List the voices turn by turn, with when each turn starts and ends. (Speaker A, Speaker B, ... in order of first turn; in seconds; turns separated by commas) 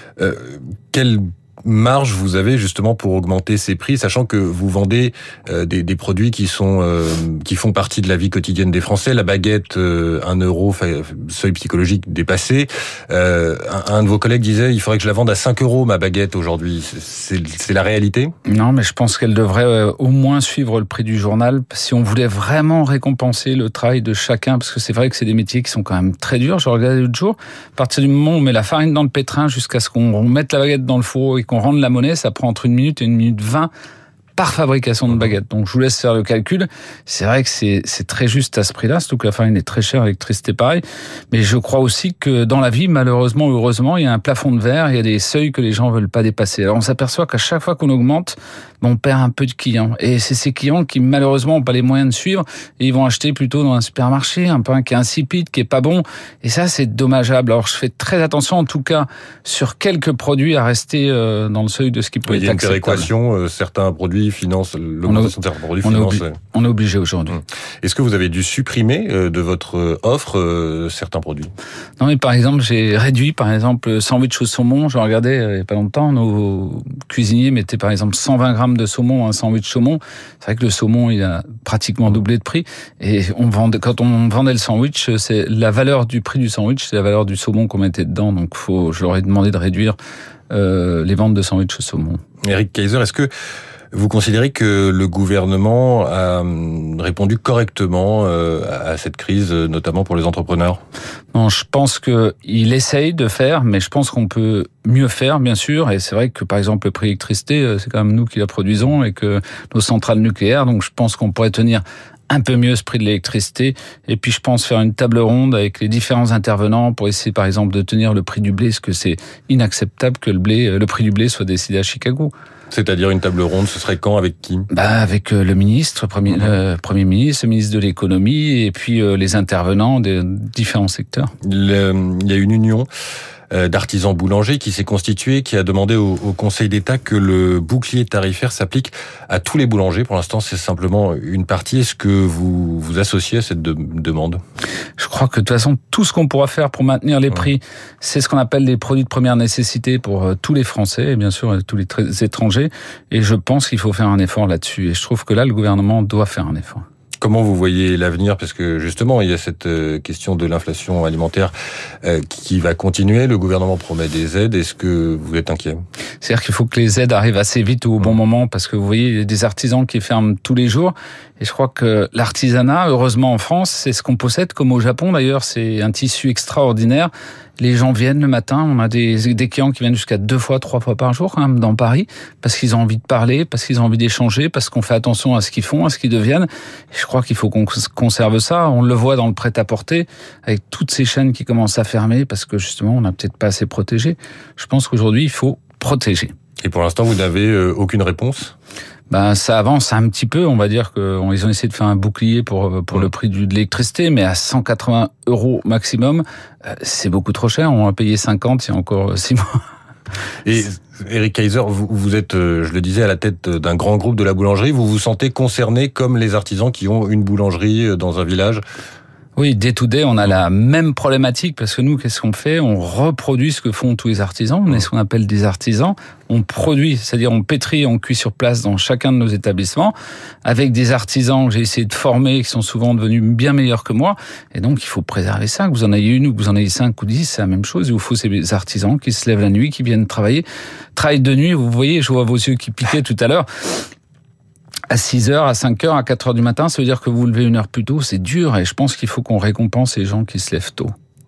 Speaker A: 0.2-18.3, Speaker B: 18.4-33.7, Speaker B: 34.4-63.1, Speaker A: 62.2-66.4, Speaker B: 65.0-67.4, Speaker A: 67.8-71.5, Speaker B: 72.0-90.0, Speaker B: 90.5-92.2, Speaker A: 92.4-93.3, Speaker A: 93.9-100.8, Speaker B: 101.3-122.3, Speaker A: 122.7-124.7, Speaker B: 124.7-131.3, Speaker A: 131.4-132.9, Speaker A: 133.5-144.4, Speaker B: 145.0-156.8, Speaker A: 157.2-165.8, Speaker B: 166.2-196.3, Speaker A: 196.6-198.5, Speaker B: 199.1-209.6, Speaker A: 210.4-218.6, Speaker B: 219.3-229.9, Speaker B: 230.4-240.4, Speaker B: 240.9-243.5, Speaker B: 244.9-250.9